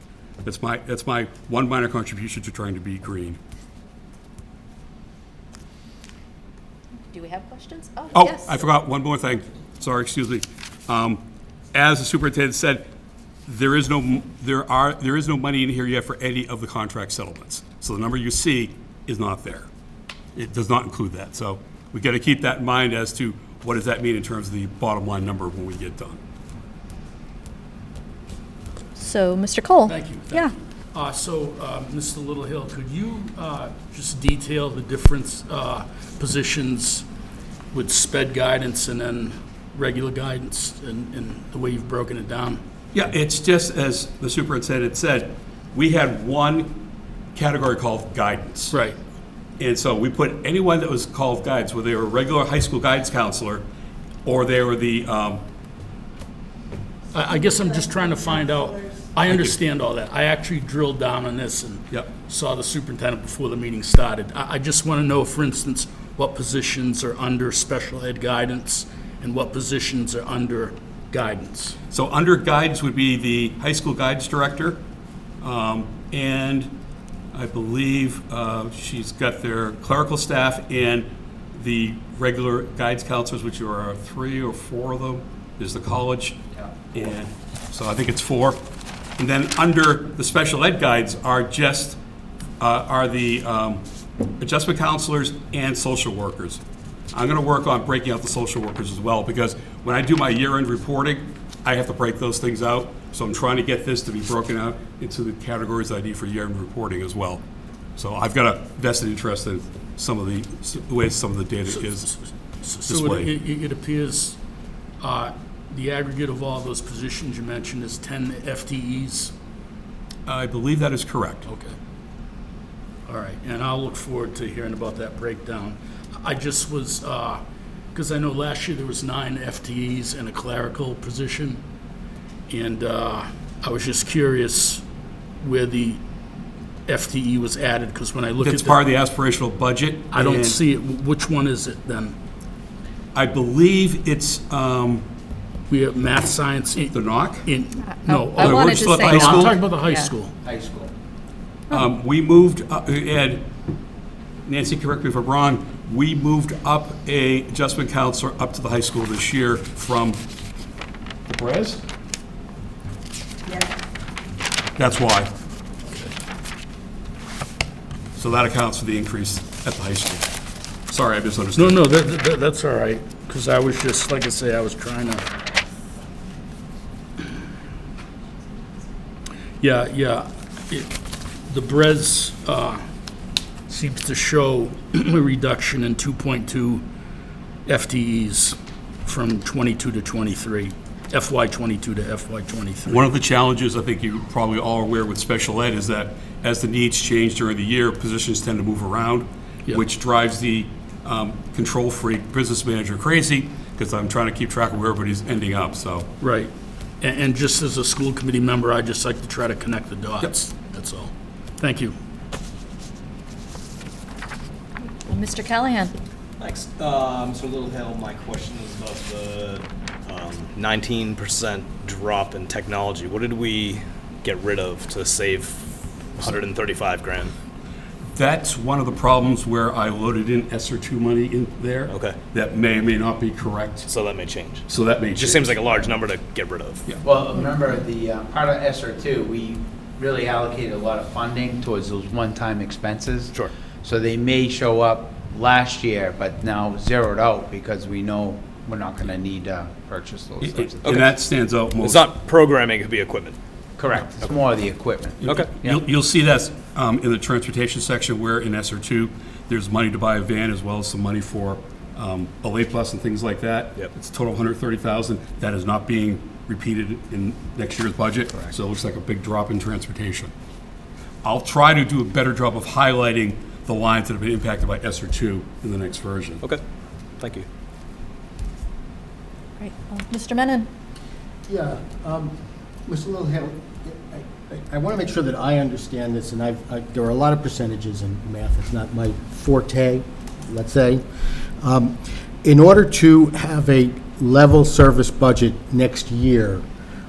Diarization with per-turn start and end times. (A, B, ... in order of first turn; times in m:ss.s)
0:00.4-0:03.4 A
0:07.1-0:08.6 B
0:08.1-0:11.2 A
0:11.7-0:12.8 A
0:13.5-0:19.7 A
0:20.3-0:26.2 A
0:29.0-0:30.5 B
0:29.8-0:37.0 C
0:37.7-0:42.6 C
0:42.9-0:46.8 A
0:47.3-0:48.7 A
0:48.7-0:49.0 C
0:49.6-0:53.6 A
0:54.2-0:55.4 A
0:57.1-1:11.8 C
1:11.9-1:14.8 A
1:15.4-1:16.8 A
1:17.3-1:26.4 A
1:26.9-1:28.6 A
1:29.2-1:32.0 A
1:32.6-1:33.8 A
1:34.4-1:36.6 A
1:37.1-1:47.4 A
1:48.0-1:52.1 A
1:51.7-1:54.4 C
1:52.9-1:53.3 A
1:55.0-1:59.3 C
2:00.2-2:01.5 A
2:01.5-2:01.8 C
2:03.1-2:07.4 C
2:07.9-2:11.6 C
2:12.5-2:14.8 C
2:15.4-2:16.0 C
2:16.9-2:18.8 C
2:18.4-2:20.6 A
2:20.1-2:22.2 C
2:23.1-2:25.0 A
2:25.7-2:30.3 C
2:26.9-2:27.5 A
2:27.9-2:30.1 B
2:28.4-2:29.6 A
2:30.4-2:30.9 D
2:31.7-2:33.5 A
2:34.4-2:40.2 A
2:41.2-2:41.8 A
2:44.8-2:45.3 A
2:48.2-2:50.3 A
2:50.9-2:51.8 A
2:51.6-2:55.2 C
2:59.6-3:00.9 C
3:01.5-3:02.8 C
3:03.7-3:06.8 C
3:07.6-3:13.0 C
3:12.9-3:26.1 A
3:26.2-3:31.9 C
3:35.0-3:35.9 B
3:36.4-3:47.3 E
3:48.1-3:53.9 A
3:51.9-3:52.2 E
3:53.9-3:56.9 E
3:54.7-3:55.6 A
3:57.0-4:11.0 D
4:10.4-4:12.1 A
4:10.8-4:13.4 E
4:13.8-4:15.8 D
4:15.2-4:30.3 A
4:31.2-4:36.4 A
4:37.2-4:37.4 E
4:39.6-4:40.7 B
4:41.5-4:42.3 F
4:42.9-4:51.0 F
4:51.6-4:56.6 F